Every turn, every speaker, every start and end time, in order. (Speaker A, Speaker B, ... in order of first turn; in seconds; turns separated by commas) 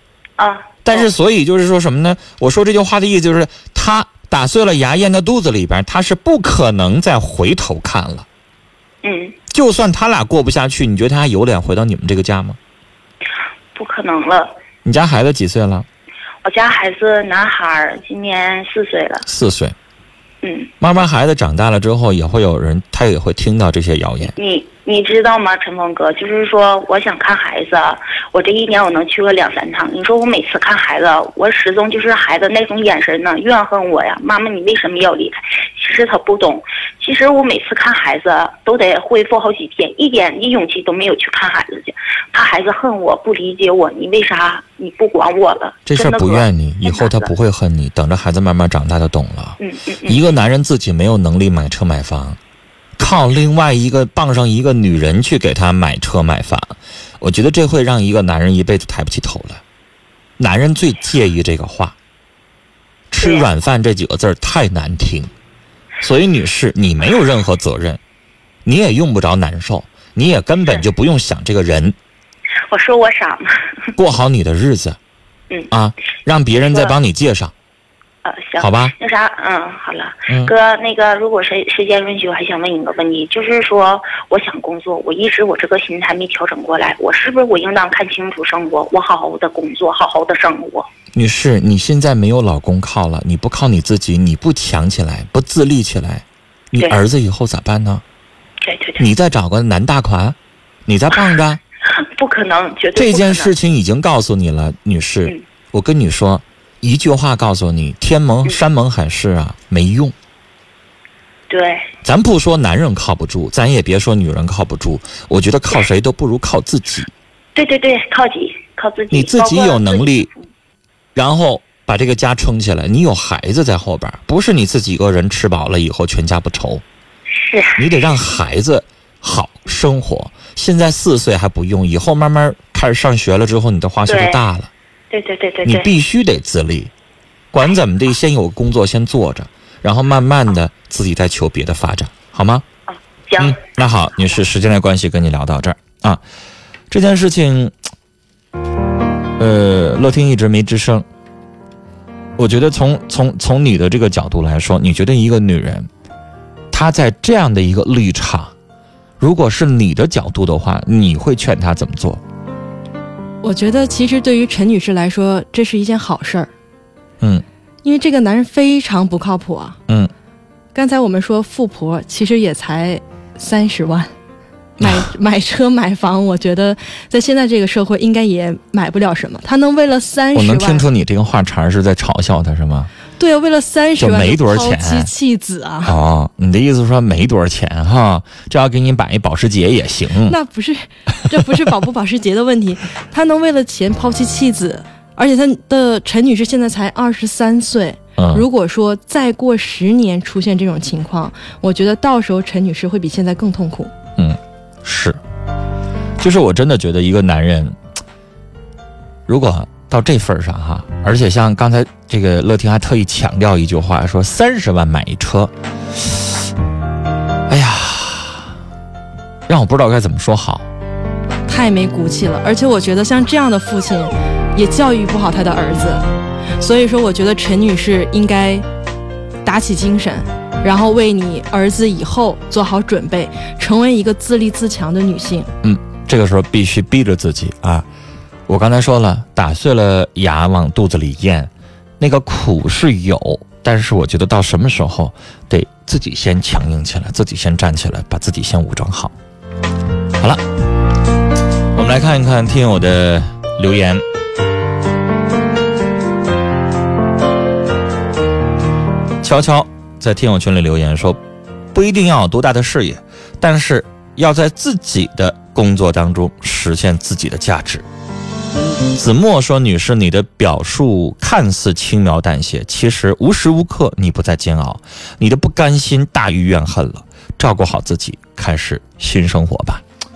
Speaker A: 0.4-1.1, Speaker B: 0.8-8.2, Speaker A: 9.0-9.3, Speaker B: 9.5-12.6, Speaker A: 13.8-14.5, Speaker B: 14.8-15.9, Speaker A: 16.4-19.2, Speaker B: 19.2-19.8, Speaker A: 20.4-20.7, Speaker B: 20.8-24.3, Speaker A: 24.3-47.3, Speaker B: 45.9-52.4, Speaker A: 49.6-50.2, Speaker B: 53.0-59.6, Speaker B: 60.4-61.9, Speaker B: 63.1-65.3, Speaker A: 63.2-63.5, Speaker B: 66.0-68.0, Speaker B: 68.6-72.0, Speaker A: 72.7-73.9, Speaker B: 73.9-75.0, Speaker B: 75.7-77.5, Speaker A: 76.7-76.9, Speaker A: 78.2-90.9, Speaker B: 78.6-78.9, Speaker B: 91.1-98.0, Speaker A: 96.8-97.0, Speaker A: 98.6-99.1, Speaker B: 99.0-100.4, Speaker B: 100.9-101.6, Speaker A: 101.9-103.5, Speaker B: 102.9-110.1, Speaker A: 111.5-111.9, Speaker B: 112.0-117.1, Speaker A: 117.5-120.4, Speaker B: 119.1-120.3, Speaker B: 121.1-126.8, Speaker A: 127.3-127.8, Speaker B: 127.8-134.7, Speaker A: 134.1-134.4, Speaker A: 135.1-135.9, Speaker B: 135.6-136.9, Speaker B: 137.5-142.6, Speaker A: 142.9-144.4, Speaker B: 143.4-146.2, Speaker B: 146.9-147.8, Speaker B: 149.4-151.1, Speaker B: 152.4-155.9, Speaker B: 156.7-158.5, Speaker B: 159.2-162.2, Speaker C: 163.4-166.5, Speaker C: 167.8-169.8, Speaker C: 170.7-174.1, Speaker C: 174.8-180.9, Speaker B: 174.8-175.1, Speaker B: 180.3-182.9, Speaker C: 183.2-185.9, Speaker B: 184.0-185.1, Speaker B: 185.9-190.4, Speaker C: 190.2-203.9, Speaker B: 198.2-198.4, Speaker B: 204.2-205.2, Speaker B: 206.2-207.8, Speaker B: 209.3-215.5, Speaker B: 217.5-218.5, Speaker B: 219.5-220.7, Speaker C: 221.5-226.0, Speaker C: 226.6-228.6, Speaker C: 229.4-235.5, Speaker B: 235.6-237.9, Speaker B: 238.5-249.1, Speaker B: 251.7-254.0, Speaker B: 259.2-261.2, Speaker B: 261.7-267.9, Speaker B: 268.9-279.8